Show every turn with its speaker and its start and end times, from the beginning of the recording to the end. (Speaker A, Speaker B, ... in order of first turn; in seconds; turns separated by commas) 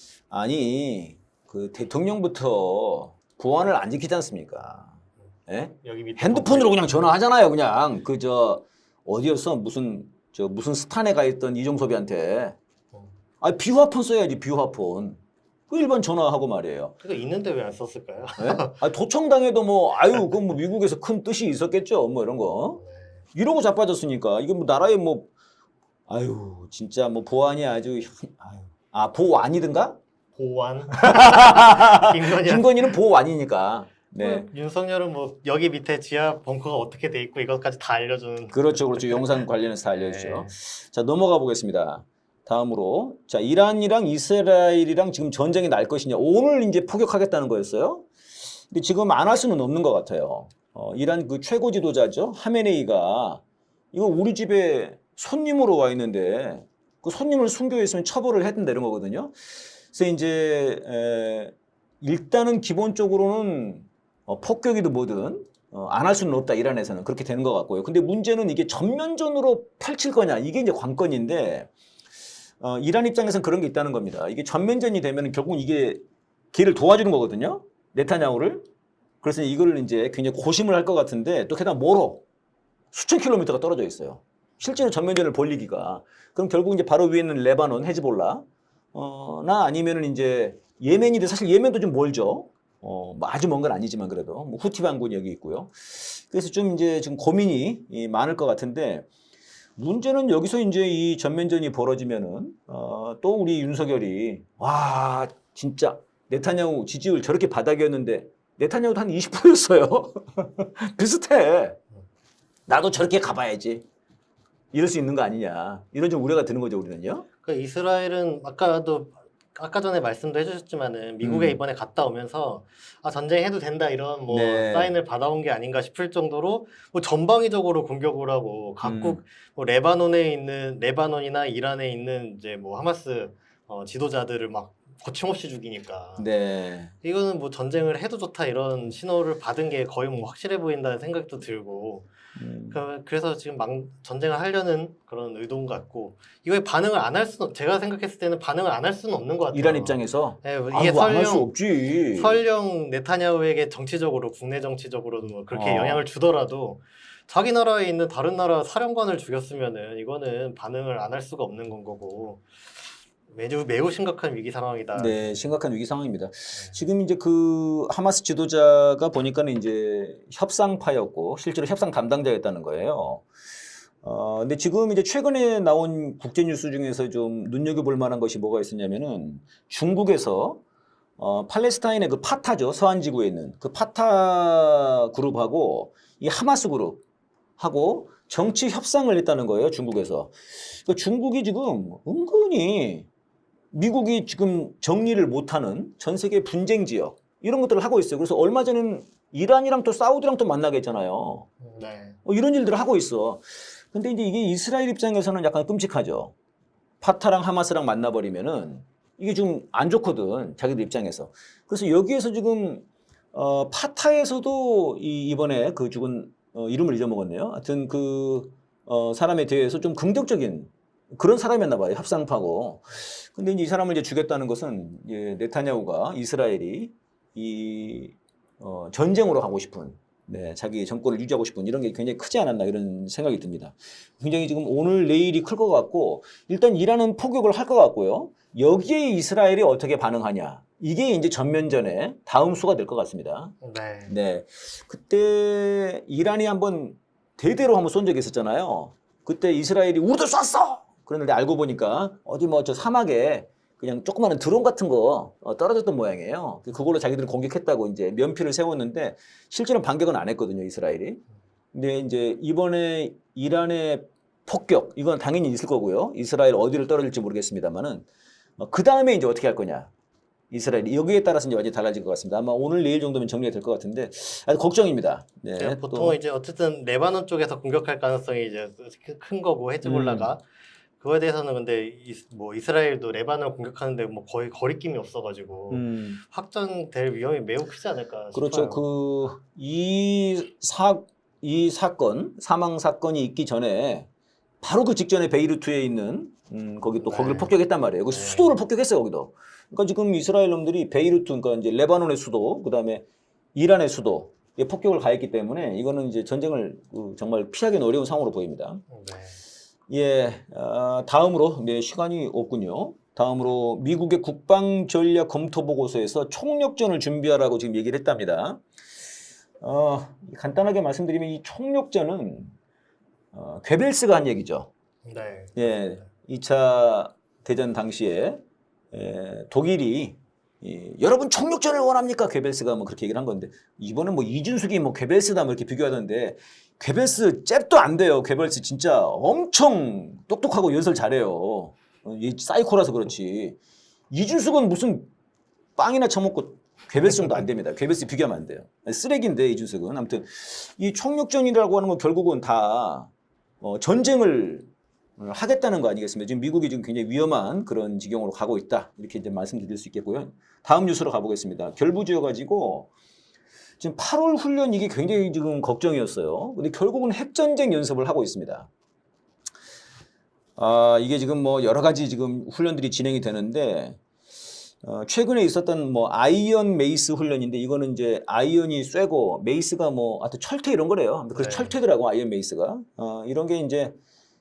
Speaker A: 0.3-5.0, Speaker A: 5.5-12.6, Speaker B: 5.8-6.7, Speaker A: 13.4-15.2, Speaker A: 15.7-16.9, Speaker B: 17.0-18.8, Speaker A: 18.4-22.8, Speaker A: 23.4-25.3, Speaker A: 26.1-30.0, Speaker B: 30.4-32.9, Speaker A: 31.0-34.5, Speaker B: 34.2-40.5, Speaker A: 38.5-48.1, Speaker A: 48.7-53.4, Speaker A: 53.9-59.3, Speaker A: 59.9-71.7, Speaker A: 72.6-76.0, Speaker A: 76.5-78.7, Speaker A: 79.2-82.2, Speaker A: 82.9-99.1, Speaker A: 99.8-111.8, Speaker A: 112.7-113.8, Speaker A: 114.7-117.3, Speaker B: 117.4-136.3, Speaker A: 121.2-121.6, Speaker A: 124.3-124.9, Speaker A: 128.8-129.2, Speaker A: 136.2-136.9, Speaker B: 137.0-142.1, Speaker A: 142.4-142.8, Speaker B: 142.7-151.5, Speaker A: 149.5-152.4, Speaker B: 152.1-162.5, Speaker A: 155.5-156.0, Speaker B: 163.3-165.2, Speaker A: 164.9-173.2, Speaker A: 174.0-180.6, Speaker A: 181.2-187.0, Speaker A: 187.6-193.1, Speaker A: 193.7-201.5, Speaker B: 201.6-202.2, Speaker A: 202.2-206.3, Speaker A: 207.0-243.6, Speaker B: 243.6-244.1, Speaker A: 244.1-268.1, Speaker A: 268.6-269.9, Speaker A: 270.5-276.2, Speaker B: 275.6-280.4, Speaker A: 279.8-280.3, Speaker B: 281.0-288.8, Speaker A: 285.7-286.2, Speaker A: 288.3-294.1, Speaker A: 294.6-308.8, Speaker B: 297.0-297.5, Speaker B: 298.1-298.6, Speaker B: 308.9-309.4, Speaker A: 309.9-318.6, Speaker A: 319.6-322.5, Speaker A: 323.3-324.7, Speaker B: 325.1-325.8, Speaker A: 325.6-328.4, Speaker A: 328.9-343.6, Speaker A: 344.1-345.1, Speaker A: 345.8-353.1, Speaker A: 353.6-362.9, Speaker A: 363.8-368.7, Speaker A: 370.6-374.0, Speaker A: 374.8-383.9, Speaker B: 381.4-381.8